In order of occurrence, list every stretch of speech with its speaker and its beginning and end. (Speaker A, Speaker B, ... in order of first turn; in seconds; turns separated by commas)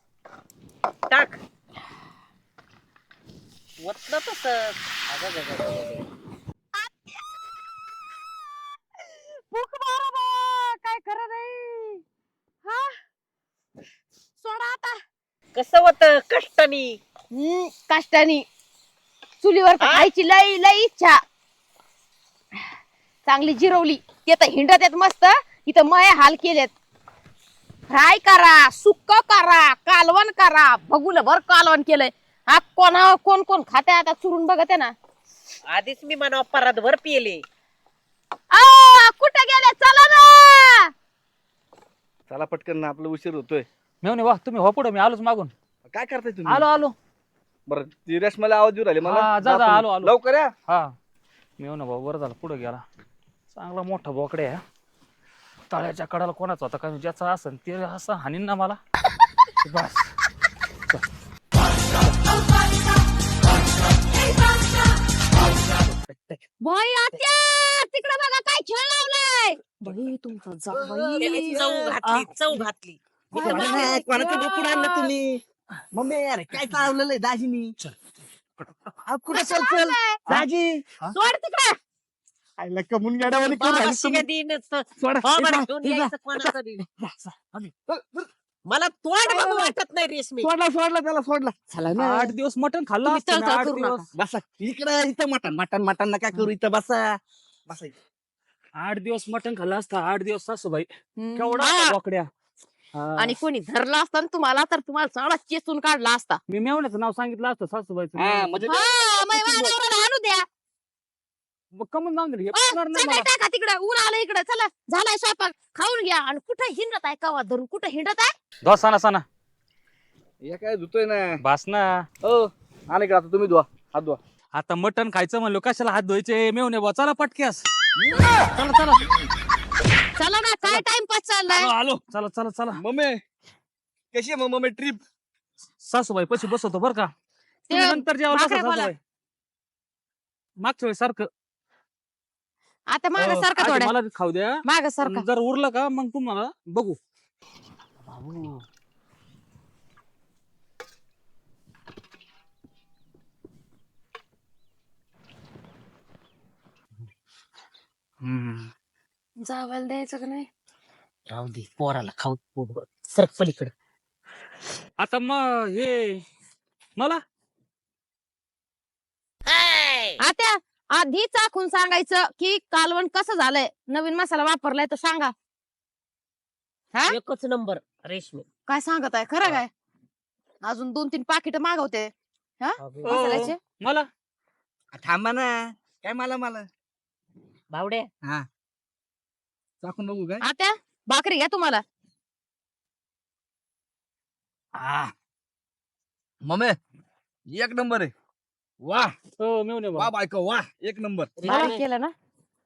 Speaker A: 1.1-1.4, Speaker A: 3.8-6.0, Speaker B: 9.0-12.0, Speaker B: 12.6-13.0, Speaker B: 14.4-15.0, Speaker A: 15.5-17.0, Speaker B: 17.3-18.4, Speaker B: 19.4-21.2, Speaker A: 19.8-20.1, Speaker B: 23.2-26.7, Speaker B: 27.9-34.9, Speaker A: 35.7-37.4, Speaker B: 38.5-40.9, Speaker C: 42.3-43.6, Speaker D: 44.0-45.5, Speaker C: 45.9-46.6, Speaker D: 46.5-46.9, Speaker C: 47.7-50.5, Speaker D: 49.0-50.1, Speaker D: 50.7-50.9, Speaker D: 51.6-52.8, Speaker D: 53.5-54.6, Speaker D: 55.7-58.8, Speaker D: 59.6-60.1, Speaker C: 65.9-66.4, Speaker B: 66.6-71.6, Speaker C: 70.7-71.9, Speaker A: 71.2-73.0, Speaker D: 72.0-72.6, Speaker B: 73.3-75.1, Speaker C: 73.3-75.4, Speaker D: 73.5-73.9, Speaker C: 75.9-77.7, Speaker C: 79.0-81.1, Speaker B: 79.3-80.2, Speaker A: 81.1-81.8, Speaker C: 82.6-84.2, Speaker A: 83.4-86.8, Speaker C: 85.0-88.3, Speaker A: 88.7-90.5, Speaker C: 89.3-89.6, Speaker C: 90.4-92.3, Speaker D: 91.9-94.0, Speaker B: 93.0-94.1, Speaker C: 94.1-97.9, Speaker D: 98.8-102.3, Speaker B: 101.2-102.0, Speaker D: 102.9-103.3, Speaker B: 103.2-106.4, Speaker D: 106.5-108.6, Speaker C: 108.2-109.8, Speaker B: 108.6-110.5, Speaker D: 111.7-113.3, Speaker B: 112.5-118.3, Speaker D: 118.6-119.2, Speaker C: 120.4-121.4, Speaker D: 121.4-122.0, Speaker C: 122.2-124.2, Speaker D: 124.5-127.6, Speaker C: 128.0-128.5, Speaker D: 128.5-129.1, Speaker B: 130.2-131.7, Speaker D: 131.5-132.8, Speaker C: 132.7-133.2, Speaker C: 134.1-135.0, Speaker D: 135.8-137.1, Speaker B: 137.7-138.9, Speaker D: 137.7-139.0, Speaker D: 140.6-141.3, Speaker B: 142.9-143.9, Speaker D: 143.2-147.0, Speaker B: 144.7-145.2, Speaker A: 148.2-148.5, Speaker D: 158.2-158.7, Speaker B: 159.4-160.5, Speaker A: 161.3-163.7, Speaker D: 165.0-166.2, Speaker D: 167.0-167.2, Speaker B: 170.2-175.3, Speaker A: 177.1-178.4, Speaker B: 178.7-179.7, Speaker B: 180.6-183.6, Speaker A: 182.8-183.5, Speaker D: 183.0-184.1, Speaker C: 184.9-186.7, Speaker A: 187.7-188.1, Speaker C: 189.8-190.4, Speaker B: 190.4-191.8, Speaker C: 194.8-195.1, Speaker C: 196.4-196.8, Speaker C: 197.5-198.1, Speaker C: 198.8-199.1, Speaker D: 199.4-200.1, Speaker C: 199.9-201.4, Speaker A: 201.4-201.8, Speaker D: 201.4-201.7, Speaker B: 201.5-202.1